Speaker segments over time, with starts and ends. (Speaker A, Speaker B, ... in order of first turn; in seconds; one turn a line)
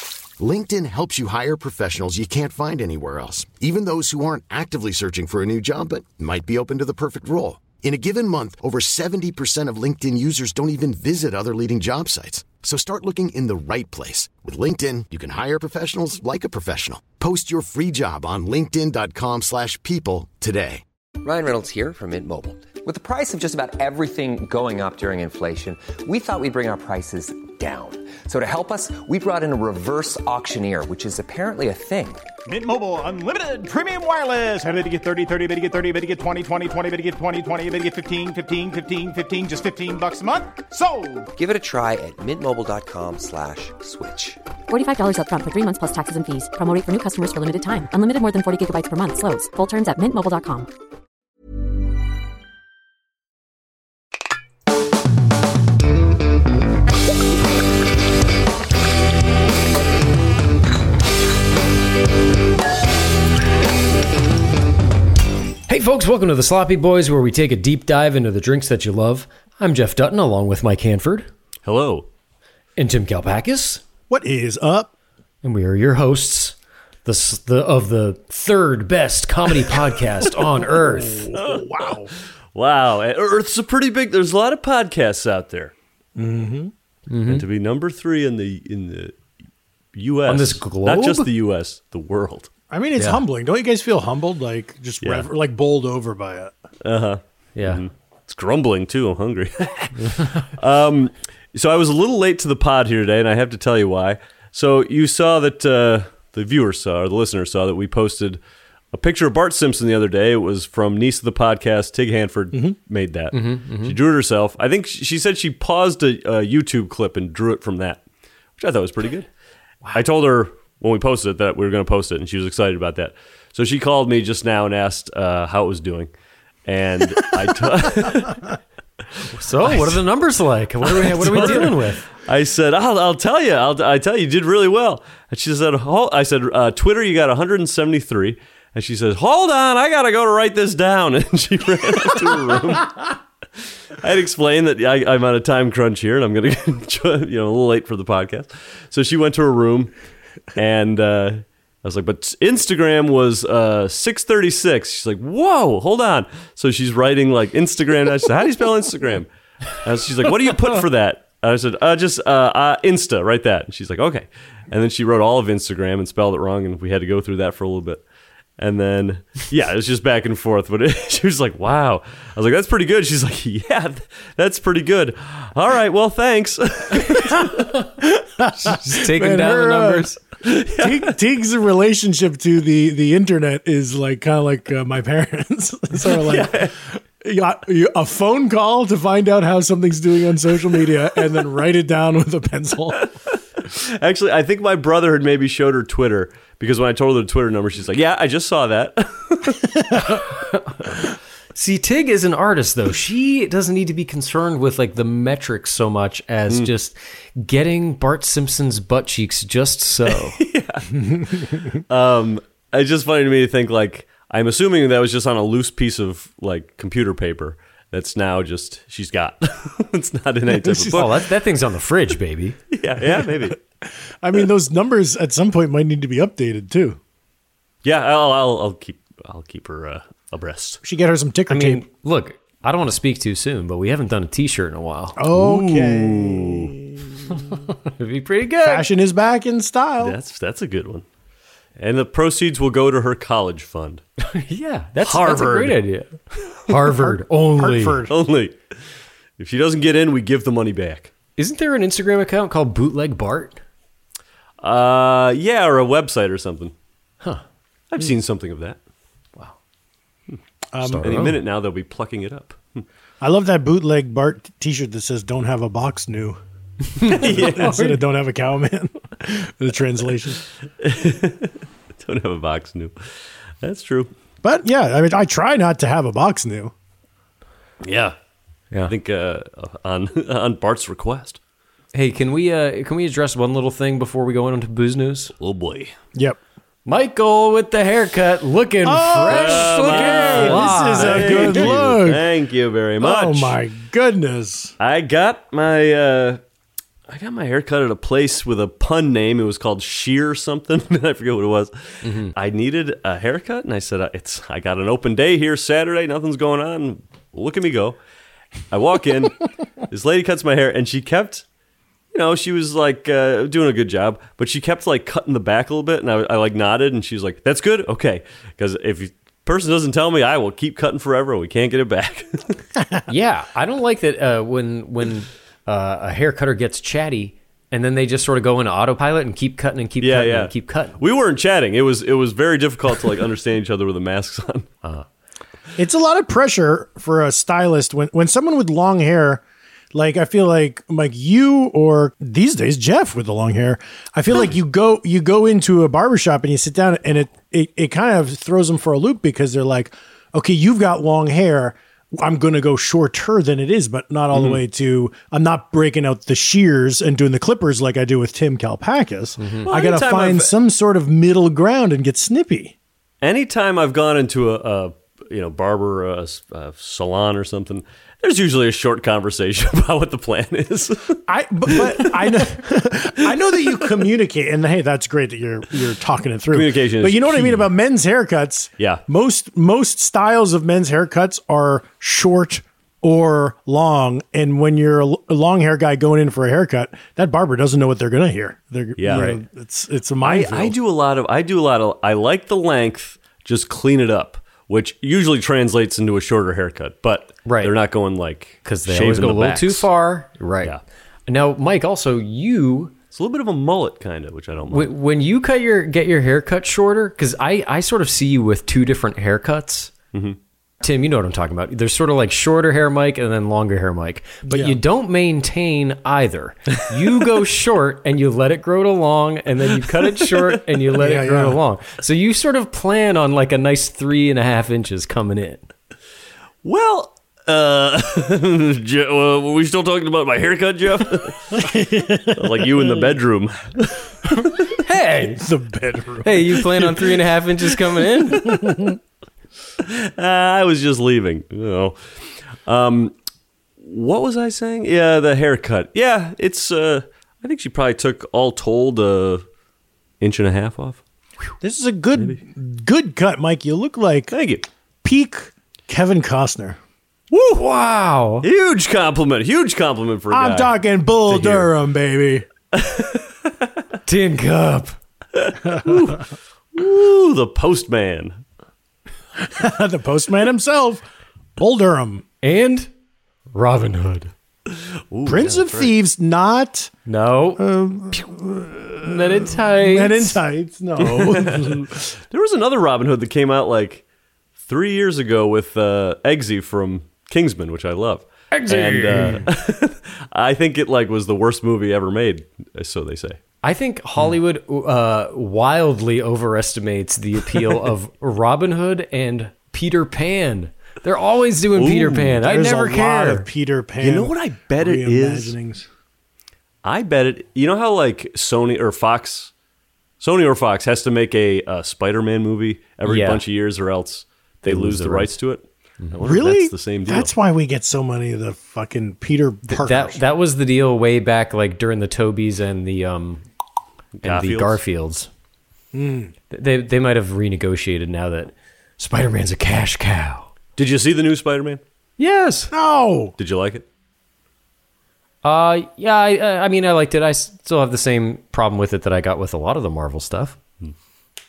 Speaker A: 0.4-20.8
Speaker B: 21.2-32.2
Speaker C: 32.5-41.3
Speaker B: 41.3-44.4
Speaker D: 44.7-50.7
Speaker E: 65.7-71.3
Speaker F: 71.6-72.1
Speaker E: 72.8-73.8
Speaker G: 74.1-74.9
Speaker E: 75.4-81.3
Speaker G: 80.7-82.1
Speaker F: 81.3-81.9
Speaker F: 82.5-85.7
Speaker G: 86.2-86.7
Speaker E: 87.1-87.5
Speaker F: 87.2-89.1
Speaker F: 90.0-92.5
Speaker E: 90.3-91.3
Speaker G: 92.7-96.5
Speaker E: 93.0-93.2
Speaker F: 95.0-95.3
Speaker F: 96.8-108.4
Speaker E: 97.6-97.8
Speaker F: 108.9-118.0
Speaker E: 113.3-114.0
Speaker F: 118.6-119.3
Speaker F: 119.9-126.1
Speaker F: 126.7-128.5
Speaker E: 129.3-132.0
Speaker G: 131.0-131.8
Speaker F: 131.1-143.2
Speaker F: 144.0-149.9
Speaker F: 150.5-168.0
Speaker F: 168.6-177.7
Speaker G: 178.0-180.1
Speaker E: 178.6-180.2
Speaker F: 180.4-181.1
Speaker G: 180.8-193.1
Speaker F: 186.1-186.8
Speaker F: 193.7-199.7
Speaker E: 200.2-200.8
Speaker E: 201.5-210.4
Speaker F: 210.3-221.3
Speaker G: 220.6-221.0
Speaker E: 220.9-222.6
Speaker F: 222.7-223.6
Speaker G: 223.2-227.0
Speaker F: 227.8-230.8
Speaker G: 230.8-231.8
Speaker E: 231.5-235.2
Speaker G: 235.2-237.6
Speaker F: 235.3-236.7
Speaker E: 237.8-238.9
Speaker G: 238.6-240.2
Speaker F: 240.0-241.0
Speaker F: 241.8-244.0
Speaker E: 244.2-246.1
Speaker F: 245.0-245.8
Speaker E: 246.7-248.0
Speaker G: 246.8-248.2
Speaker F: 248.1-248.6
Speaker F: 249.4-251.1
Speaker E: 251.4-253.6
Speaker F: 254.6-256.7
Speaker F: 257.9-258.8
Speaker G: 260.7-261.3
Speaker E: 260.8-261.4
Speaker F: 261.0-262.8
Speaker G: 263.2-266.4
Speaker E: 266.9-268.0
Speaker G: 267.0-270.4
Speaker F: 267.1-267.8
Speaker F: 270.8-272.9
Speaker F: 273.6-274.1
Speaker G: 274.4-276.7
Speaker F: 277.8-278.1
Speaker F: 278.9-281.4
Speaker E: 281.9-285.3
Speaker F: 285.4-285.9
Speaker E: 286.9-291.7
Speaker G: 288.8-292.3
Speaker F: 289.2-293.6
Speaker G: 293.0-294.7
Speaker F: 294.8-296.4
Speaker F: 297.1-308.0
Speaker E: 302.0-302.3
Speaker F: 308.7-311.4
Speaker F: 312.1-322.6
Speaker G: 322.8-323.0
Speaker E: 323.1-331.0
Speaker F: 330.0-334.7
Speaker G: 335.8-339.4
Speaker G: 339.9-362.7
Speaker F: 354.3-354.6
Speaker E: 359.4-359.7
Speaker F: 359.6-360.5
Speaker F: 363.2-372.3
Speaker G: 371.3-390.8
Speaker F: 376.5-377.7
Speaker F: 389.0-389.3
Speaker E: 389.1-389.4
Speaker F: 390.2-399.9
Speaker E: 397.4-397.7
Speaker E: 398.6-400.8
Speaker E: 401.3-402.9
Speaker F: 403.1-404.9
Speaker E: 404.7-409.9
Speaker F: 410.1-410.4
Speaker E: 410.8-425.7
Speaker G: 414.4-414.8
Speaker F: 419.8-420.6
Speaker G: 421.0-421.6
Speaker F: 426.6-431.7
Speaker G: 431.5-433.1
Speaker F: 432.3-434.6
Speaker E: 434.8-435.4
Speaker G: 435.4-437.1
Speaker E: 436.2-438.5
Speaker F: 438.4-438.8
Speaker G: 438.4-439.0
Speaker F: 439.8-442.0
Speaker F: 442.6-443.1
Speaker F: 443.8-449.4
Speaker F: 450.2-451.0
Speaker G: 451.6-454.4
Speaker F: 454.3-454.6
Speaker G: 455.0-456.8
Speaker E: 457.3-458.5
Speaker F: 458.4-461.7
Speaker G: 460.3-462.4
Speaker F: 462.7-463.7
Speaker E: 464.1-464.9
Speaker F: 465.3-468.4
Speaker G: 469.4-471.0
Speaker G: 471.6-472.2
Speaker E: 472.4-472.9
Speaker E: 473.5-474.3
Speaker F: 475.1-475.9
Speaker G: 475.2-476.9
Speaker E: 477.1-477.6
Speaker G: 477.6-482.0
Speaker E: 479.0-480.4
Speaker F: 481.1-484.0
Speaker F: 484.6-493.4
Speaker E: 488.5-489.4
Speaker E: 493.6-503.5
Speaker F: 501.7-502.4
Speaker G: 502.4-505.9
Speaker F: 504.0-505.6
Speaker F: 506.8-509.5
Speaker F: 510.2-517.3
Speaker E: 513.0-513.4
Speaker E: 514.6-515.3
Speaker G: 516.2-520.2
Speaker E: 519.7-523.4
Speaker F: 524.2-524.8
Speaker E: 524.2-525.3
Speaker G: 525.9-526.3
Speaker E: 526.5-530.5
Speaker F: 530.8-531.8
Speaker E: 532.2-532.7
Speaker G: 532.7-533.4
Speaker F: 533.4-533.9
Speaker E: 535.4-540.6